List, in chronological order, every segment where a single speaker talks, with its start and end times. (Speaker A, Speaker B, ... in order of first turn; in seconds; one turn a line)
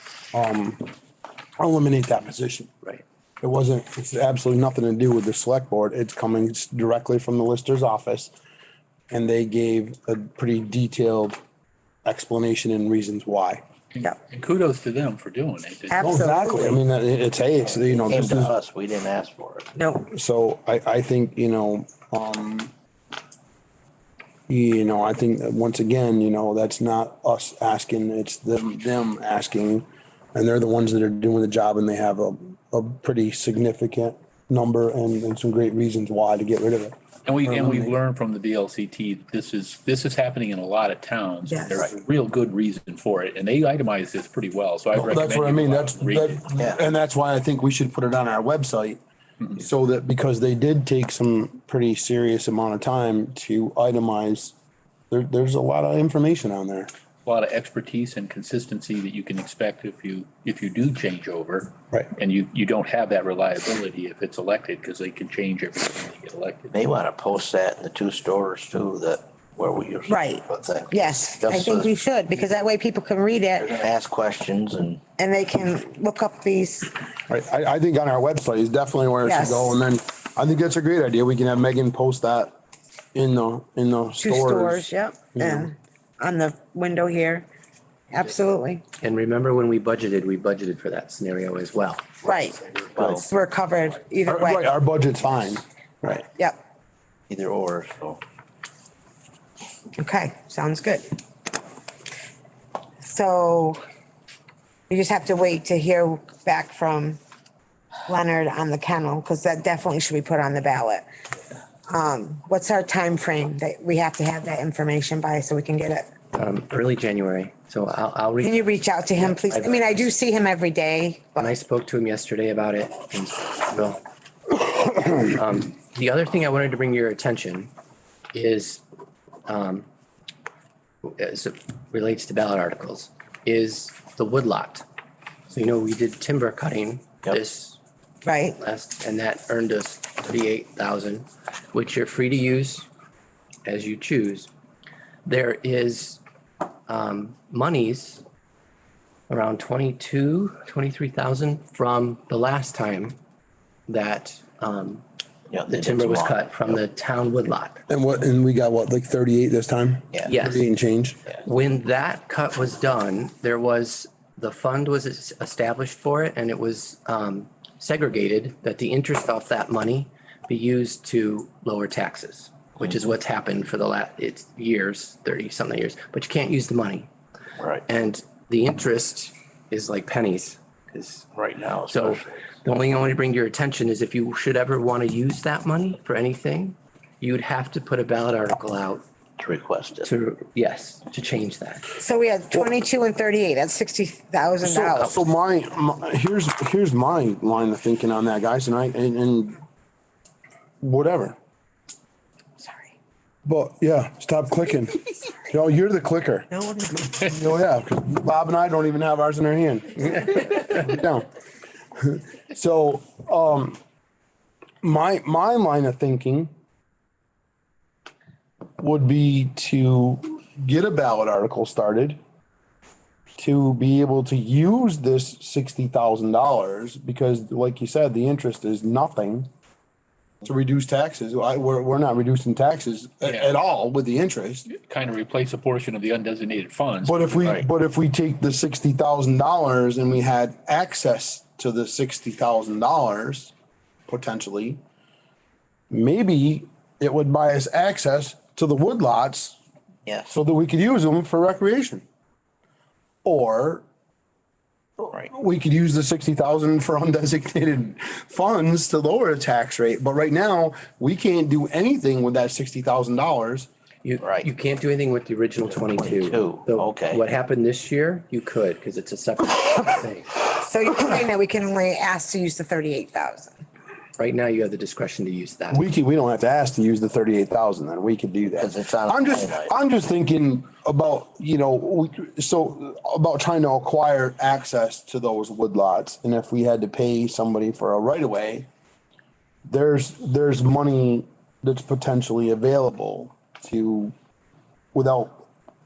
Speaker A: 0.3-0.9
Speaker A: 1.6-2.8
Speaker A: 3.4-8.3
Speaker A: 9.1-11.4
Speaker A: 12.1-13.6
Speaker B: 13.9-16.2
Speaker C: 15.9-16.8
Speaker A: 16.0-18.6
Speaker D: 17.9-19.7
Speaker C: 19.8-20.1
Speaker A: 20.1-22.7
Speaker A: 24.5-37.9
Speaker B: 37.3-46.5
Speaker C: 41.5-41.9
Speaker A: 44.9-49.0
Speaker A: 49.6-54.5
Speaker A: 55.1-56.9
Speaker B: 57.3-66.8
Speaker D: 66.7-71.9
Speaker C: 70.1-73.7
Speaker D: 73.6-75.0
Speaker C: 75.2-76.9
Speaker A: 77.3-82.5
Speaker C: 79.2-79.8
Speaker A: 83.2-85.7
Speaker C: 84.2-87.5
Speaker C: 88.1-88.8
Speaker E: 89.0-92.1
Speaker C: 92.2-94.7
Speaker D: 92.9-93.2
Speaker A: 94.3-96.3
Speaker D: 97.3-98.2
Speaker C: 100.0-101.2
Speaker C: 103.0-103.8
Speaker C: 104.9-107.2
Speaker C: 108.1-111.1
Speaker C: 111.9-116.1
Speaker E: 116.3-120.0
Speaker C: 118.4-121.5
Speaker E: 121.4-124.0
Speaker E: 125.0-127.7
Speaker E: 128.3-128.8
Speaker E: 129.5-129.9
Speaker E: 131.0-134.8
Speaker E: 135.5-137.8
Speaker C: 138.3-138.6
Speaker E: 138.6-142.9
Speaker E: 143.7-144.5
Speaker E: 145.2-146.2
Speaker E: 146.9-148.2
Speaker E: 149.3-153.2
Speaker E: 153.9-155.0
Speaker D: 155.5-156.8
Speaker E: 155.7-157.8
Speaker A: 157.9-161.2
Speaker E: 160.3-160.7
Speaker E: 161.3-177.1
Speaker E: 177.9-181.3
Speaker D: 181.4-182.4
Speaker E: 181.9-189.0
Speaker D: 189.4-190.1
Speaker E: 190.0-191.9
Speaker C: 192.0-195.2
Speaker E: 194.7-195.2
Speaker A: 194.8-199.6
Speaker A: 200.8-201.4
Speaker A: 203.5-211.3
Speaker C: 206.5-207.2
Speaker A: 212.0-213.8
Speaker A: 214.8-216.5
Speaker A: 218.8-222.2
Speaker A: 223.4-229.5
Speaker A: 230.4-234.7
Speaker B: 233.2-233.5
Speaker B: 234.7-237.6
Speaker A: 237.1-243.5
Speaker A: 244.1-244.8
Speaker A: 245.9-249.6
Speaker D: 250.1-250.3
Speaker A: 250.3-252.1
Speaker A: 253.2-253.8
Speaker A: 255.0-263.7
Speaker E: 264.0-270.5
Speaker D: 264.2-264.5
Speaker D: 266.1-267.2
Speaker C: 270.6-273.6
Speaker E: 274.2-275.9
Speaker A: 275.7-288.7
Speaker D: 278.6-279.7
Speaker A: 289.6-294.1
Speaker A: 294.9-295.5